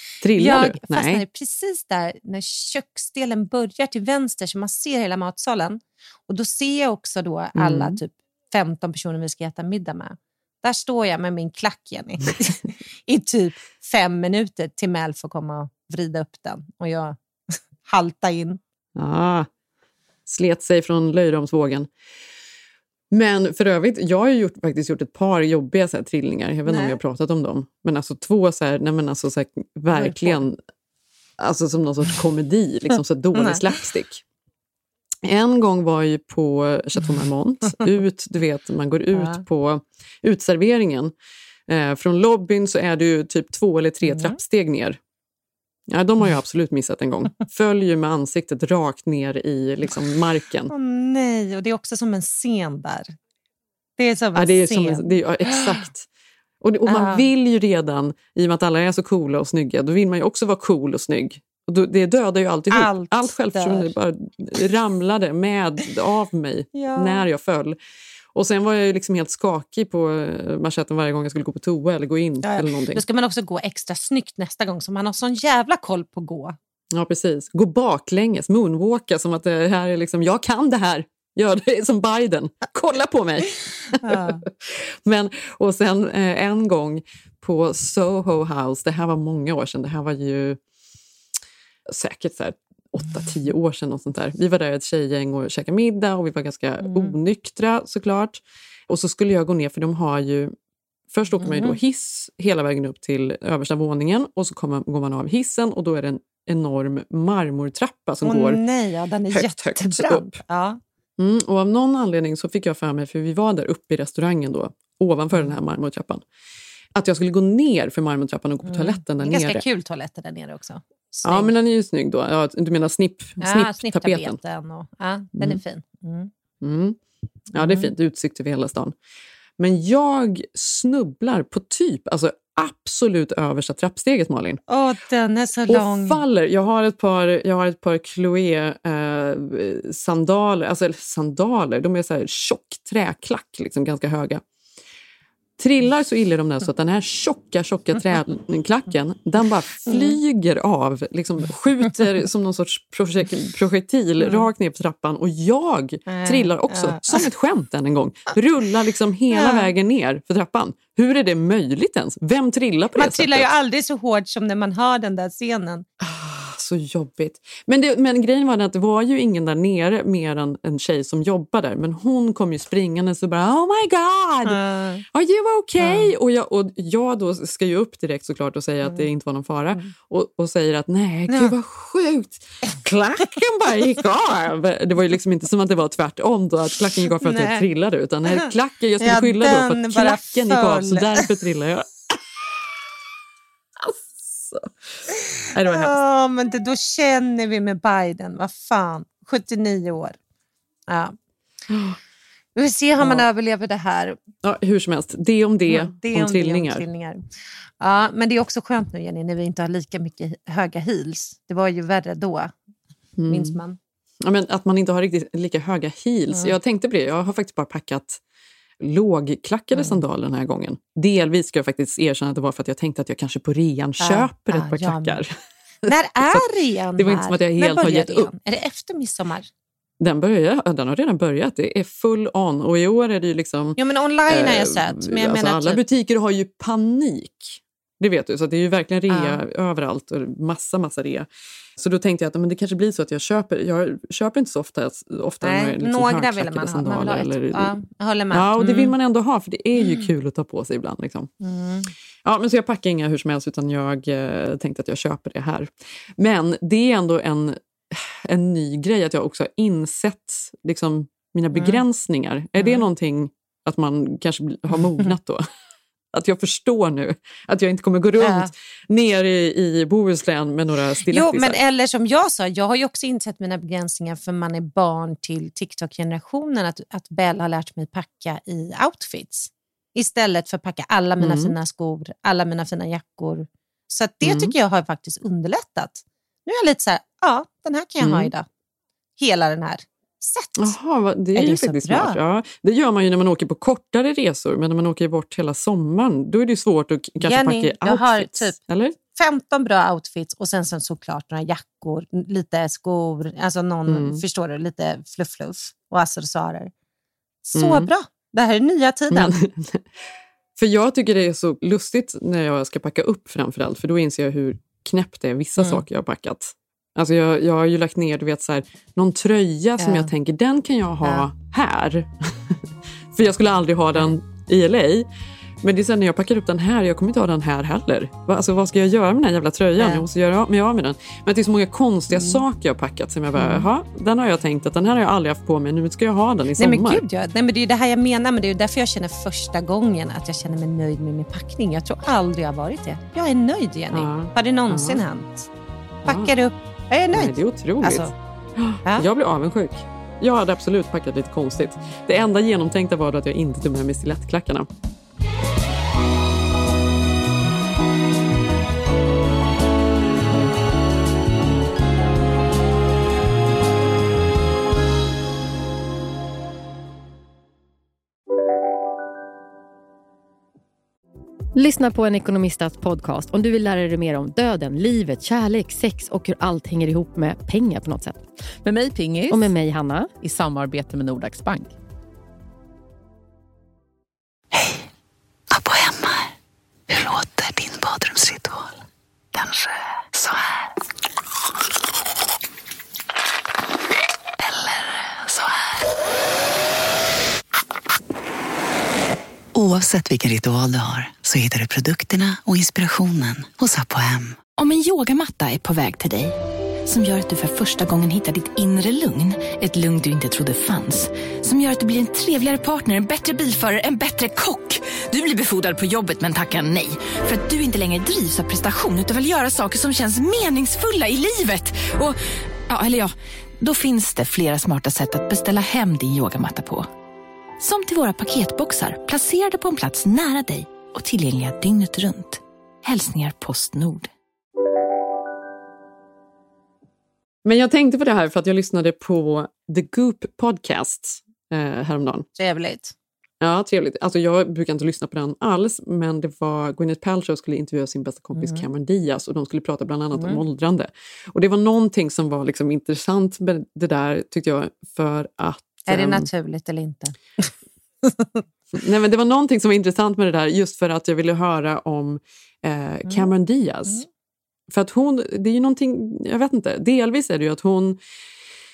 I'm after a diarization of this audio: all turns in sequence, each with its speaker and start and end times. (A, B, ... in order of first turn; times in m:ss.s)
0:00.2-0:01.2 A
0:00.4-0:18.6 B
0:07.6-0:08.0 A
0:19.0-0:19.5 A
0:20.3-0:21.9 A
0:23.1-0:30.6 A
0:26.7-0:27.0 B
0:29.9-0:30.4 B
0:31.4-0:34.2 A
0:35.2-0:41.1 A
0:39.1-0:39.4 B
0:41.7-0:45.0 A
0:44.0-0:44.4 B
0:45.9-0:50.7 A
0:50.7-0:53.1 B
0:54.0-0:55.8 B
0:54.4-0:56.1 A
0:56.6-1:07.8 A
0:56.9-0:57.2 B
1:02.7-1:03.9 B
1:06.7-1:07.2 B
1:08.3-1:13.0 A
1:12.4-1:16.6 B
1:16.9-1:30.6 A
1:24.0-1:24.4 B
1:31.9-1:40.5 A
1:36.8-1:37.2 B
1:41.1-1:48.6 A
1:41.4-1:41.8 B
1:48.2-1:50.8 B
1:49.3-1:50.4 A
1:51.2-1:56.2 A
1:57.0-1:59.6 A
1:58.7-2:01.5 B
2:01.2-2:04.4 A
2:03.4-2:06.3 B
2:06.6-2:07.0 A
2:07.5-2:09.0 A
2:07.6-2:07.9 B
2:09.6-2:14.6 A
2:14.7-2:16.2 B
2:15.7-2:24.4 A
2:25.6-2:43.5 A
2:29.9-2:30.2 B
2:34.2-2:34.5 B
2:36.1-2:37.2 B
2:39.3-2:39.7 B
2:43.0-2:45.9 B
2:46.0-2:54.6 A
2:54.4-2:55.0 B
2:55.1-3:11.9 A
2:55.8-2:56.1 B
3:07.2-3:07.6 B
3:09.0-3:11.2 B
3:13.8-3:14.7 A
3:15.5-3:16.0 A
3:15.6-3:20.2 B
3:20.9-3:21.2 B
3:21.7-3:22.0 A
3:22.6-3:24.2 B
3:23.0-3:23.3 A
3:24.4-3:26.8 A
3:25.7-3:27.2 B
3:27.8-3:32.5 B
3:33.2-3:33.6 A
3:33.3-3:33.8 B
3:34.2-3:38.2 A
3:38.8-3:45.3 A
3:39.7-3:40.0 B
3:44.0-3:45.2 B
3:45.9-3:49.5 B
3:45.9-3:46.4 A
3:47.0-3:48.3 A
3:50.0-4:01.3 A
3:53.8-3:55.8 B
3:59.1-3:59.4 B
4:01.8-4:07.7 A
4:05.4-4:08.9 B
4:08.3-4:11.3 A
4:09.8-4:10.1 B
4:11.4-4:11.9 B
4:12.2-4:25.4 A
4:21.5-4:21.8 B
4:22.6-4:22.9 B
4:24.7-4:25.1 B
4:26.1-4:31.6 A
4:28.2-4:28.5 B
4:31.1-4:48.5 B
4:41.2-4:41.5 A
4:44.2-4:44.5 A
4:48.0-4:48.3 A
4:49.2-4:50.7 B
4:50.6-4:59.0 A
4:51.4-4:52.2 B
4:57.2-4:58.6 B
4:59.1-5:06.7 B
5:03.9-5:04.2 A
5:07.4-5:09.4 B
5:07.6-5:07.9 A
5:09.1-5:09.9 A
5:10.6-5:22.6 A
5:19.8-5:20.1 B
5:23.1-5:25.1 A
5:25.6-5:37.0 A
5:29.8-5:30.0 B
5:32.1-5:32.4 B
5:33.4-5:33.7 B
5:36.6-5:45.5 B
5:43.9-5:45.0 A
5:46.0-5:46.3 A
5:46.1-5:48.1 B
5:47.1-5:54.7 A
6:11.5-6:18.3 C
6:18.6-6:19.5 D
6:19.3-6:20.2 C
6:20.2-6:21.7 D
6:24.5-6:24.8 E
6:25.5-6:26.3 E
6:26.9-6:28.8 E
6:29.4-6:30.6 E
6:34.4-6:35.6 E
6:39.5-6:44.4 E
6:44.4-7:06.9 F
7:07.6-7:14.1 F
7:17.4-7:22.3 A
7:22.4-7:22.9 B
7:23.4-7:36.3 A
7:28.4-7:28.7 B
7:30.1-7:30.4 B
7:35.9-7:37.5 B
7:38.1-7:38.4 B
7:38.7-7:44.0 A
7:44.7-7:48.0 A